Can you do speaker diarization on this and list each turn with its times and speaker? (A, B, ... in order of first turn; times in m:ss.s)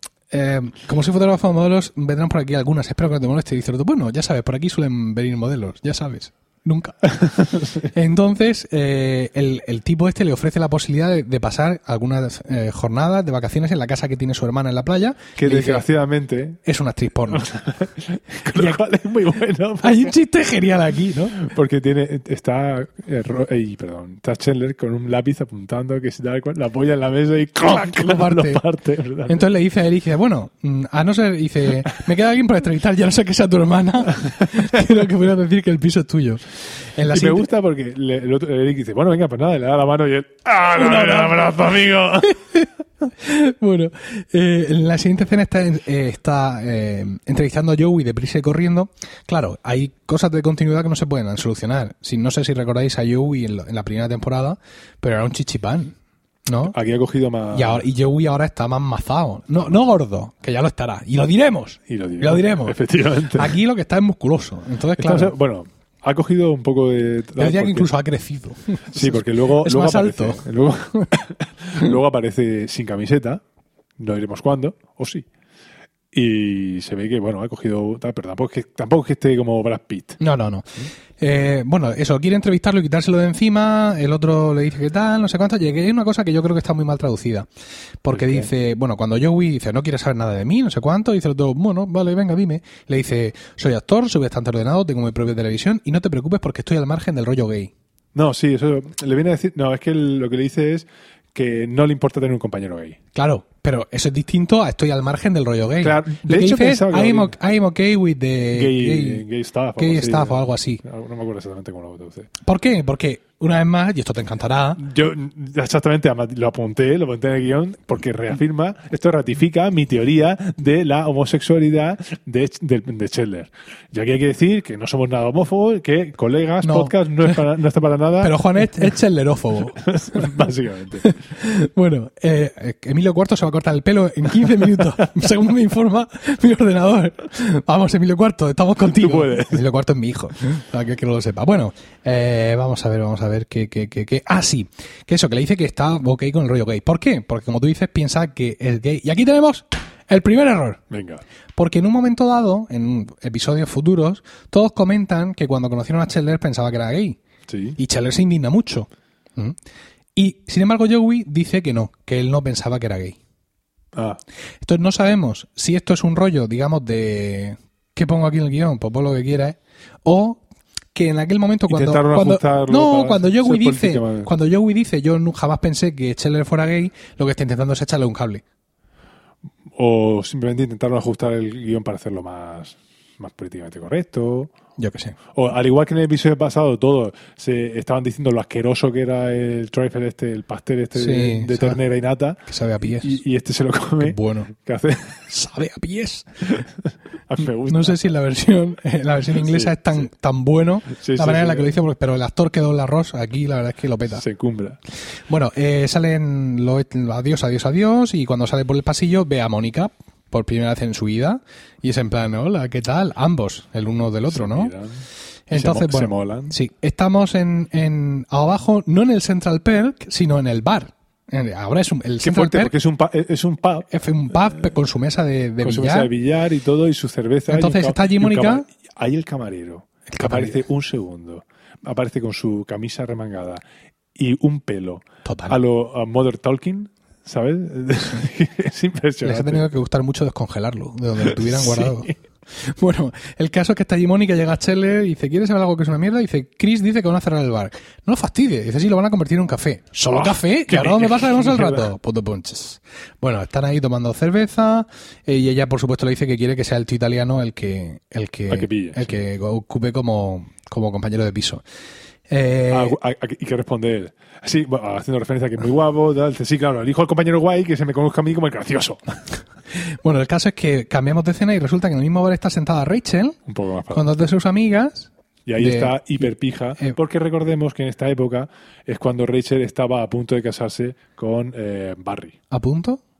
0:00.3-0:15.8 A
0:15.4-0:16.6 B
0:16.6-0:17.5 A
0:17.3-0:20.1 B
0:19.8-0:21.4 A
0:21.3-0:29.4 B
0:27.6-0:28.6 A
0:29.3-0:37.4 A
0:37.1-0:42.4 B
0:40.7-0:41.4 A
0:42.2-0:56.8 A
0:56.7-0:57.8 B
0:57.5-1:02.8 A
1:01.9-1:03.6 B
1:03.3-1:05.3 A
1:05.0-1:07.9 B
1:07.4-1:11.1 A
1:08.9-1:13.4 B
1:14.0-1:15.3 B
1:16.1-1:20.2 B
1:20.2-1:27.5 A
1:28.0-1:37.7 A
1:28.1-1:28.5 B
1:38.1-1:43.0 B
1:43.1-1:49.2 A
1:45.8-1:47.4 B
1:48.5-1:52.3 B
1:49.8-1:50.8 A
1:52.4-1:54.8 A
1:54.8-2:08.9 B
2:06.6-2:07.4 A
2:08.2-2:10.4 A
2:09.8-2:11.1 B
2:11.0-2:30.8 A
2:14.4-2:15.2 B
2:18.9-2:19.6 B
2:30.9-2:31.2 B
2:31.6-2:37.2 A
2:37.5-2:37.8 B
2:37.8-2:39.6 A
2:40.2-2:43.2 A
2:43.9-2:44.2 B
2:44.6-2:50.4 A
2:50.9-2:58.4 A
2:51.7-2:54.3 B
2:59.7-3:04.5 B
3:04.8-3:05.2 A
3:05.3-3:15.3 B
3:10.9-3:11.8 A
3:12.5-3:13.2 A
3:14.0-3:14.5 A
3:15.3-3:16.6 A
3:17.3-3:18.0 B
3:17.7-3:24.2 A
3:19.3-3:19.8 B
3:20.9-3:21.8 B
3:24.1-3:24.8 B
3:25.3-3:34.7 A
3:34.3-3:36.5 B
3:35.5-3:42.7 A
3:42.2-3:43.9 B
3:43.9-3:46.1 A
3:45.6-3:53.6 B
3:47.5-3:48.6 A
3:50.1-3:50.6 A
3:54.2-3:59.7 B
3:55.2-3:55.6 A
3:59.2-4:21.6 A
4:01.2-4:02.1 B
4:10.1-4:11.9 B
4:18.5-4:19.2 B
4:22.3-4:23.0 A
4:22.7-4:29.2 B
4:29.7-4:33.4 A
4:33.5-4:34.1 B
4:33.9-4:36.3 A
4:35.4-4:42.4 B
4:42.5-4:43.0 A